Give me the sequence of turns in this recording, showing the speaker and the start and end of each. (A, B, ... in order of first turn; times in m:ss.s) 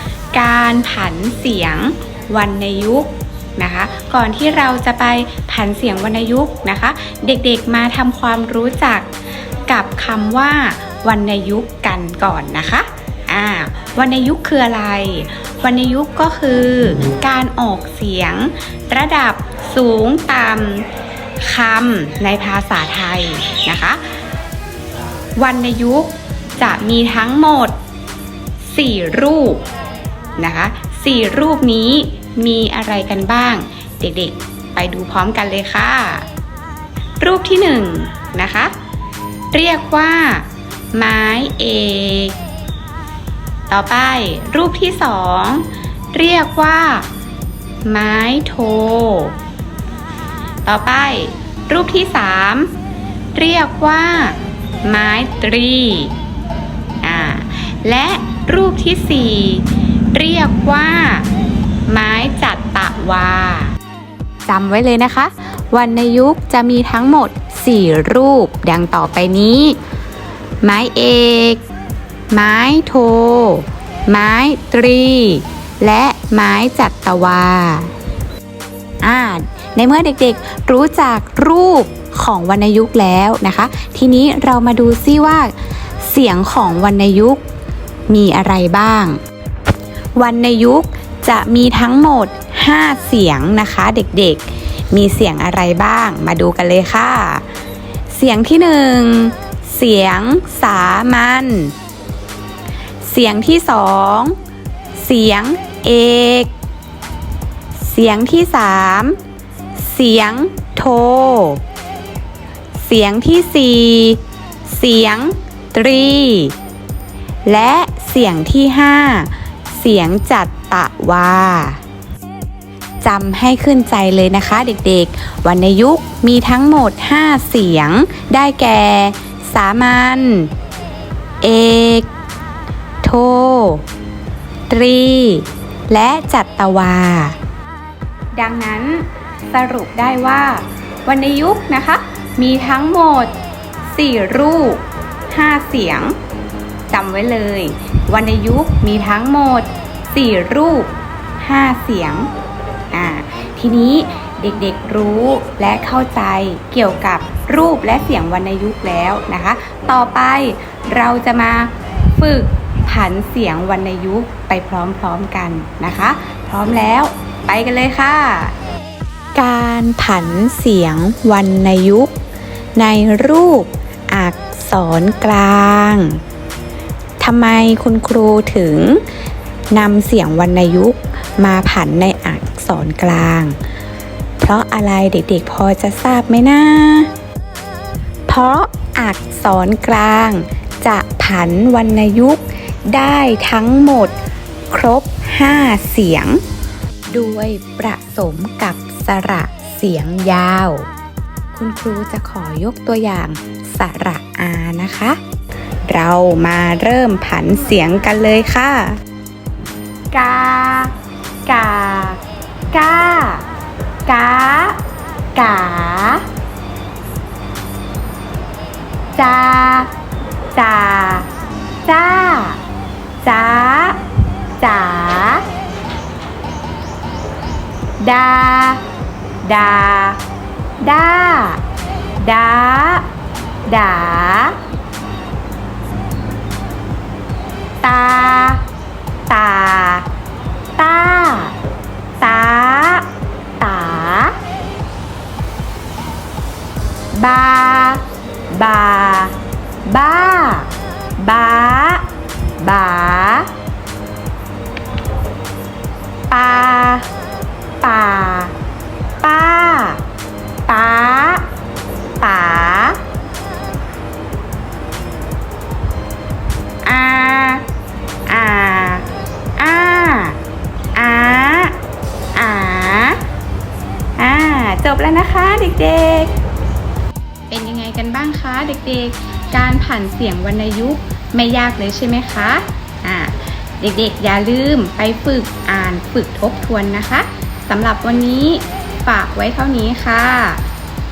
0:00.3-0:09.1 A
0:09.7-0:20.9 A
0:21.4-0:24.0 A
0:25.4-0:27.8 A
0:28.7-0:29.6 A
0:30.4-0:36.3 A
0:37.2-0:38.7 A
0:39.5-0:42.4 A
0:43.7-0:47.1 A
0:47.9-0:49.4 A
0:50.6-0:52.7 A
0:53.4-0:56.2 A
0:57.0-1:01.3 A
1:01.9-1:03.7 A
1:04.5-1:09.8 A
1:10.6-1:11.6 A
1:12.3-1:17.9 A
1:19.0-1:27.4 A
1:28.1-1:29.2 A
1:30.2-1:37.4 A
1:38.1-1:41.7 A
1:43.0-1:44.4 A
1:45.0-1:46.5 A
1:47.8-1:49.2 A
1:49.8-1:51.6 A
1:52.8-1:56.6 A
1:57.5-2:01.8 A
2:03.0-2:10.5 A
2:11.4-2:12.1 A
2:13.0-2:13.8 A
2:14.7-2:17.4 A
2:18.3-2:23.4 A
2:23.9-2:26.2 A
2:26.9-2:32.3 A
2:32.9-2:48.5 A
2:49.4-2:52.1 A
2:52.8-2:56.2 A
2:57.2-2:59.0 A
2:59.7-3:03.6 A
3:04.4-3:07.1 A
3:08.3-3:14.2 A
3:14.7-3:16.4 A
3:17.1-3:20.9 A
3:21.5-3:25.2 A
3:25.9-3:29.0 A
3:30.1-3:30.9 A
3:31.5-3:32.2 A
3:32.7-3:33.4 A
3:34.1-3:34.8 A
3:35.4-3:36.2 A
3:39.2-3:39.9 A
3:40.5-3:41.3 A
3:41.8-3:42.6 A
3:43.2-3:44.0 A
3:44.6-3:45.4 A
3:48.0-3:48.8 A
3:49.4-3:50.2 A
3:50.8-3:51.6 A
3:52.2-3:53.1 A
3:53.7-3:54.6 A
3:57.8-3:58.6 A
3:59.3-4:00.1 A
4:00.8-4:01.6 A
4:02.2-4:03.1 A
4:03.6-4:04.4 A
4:07.1-4:09.4 A
4:09.9-4:12.1 A
4:12.6-4:13.5 A
4:16.3-4:17.1 A
4:17.8-4:18.5 A
4:19.2-4:20.0 A
4:20.7-4:21.5 A
4:22.2-4:23.0 A
4:26.8-4:27.6 A
4:28.3-4:29.1 A
4:29.6-4:30.4 A
4:31.0-4:31.8 A
4:32.4-4:33.2 A
4:34.2-4:36.3 A
4:37.5-4:50.6 A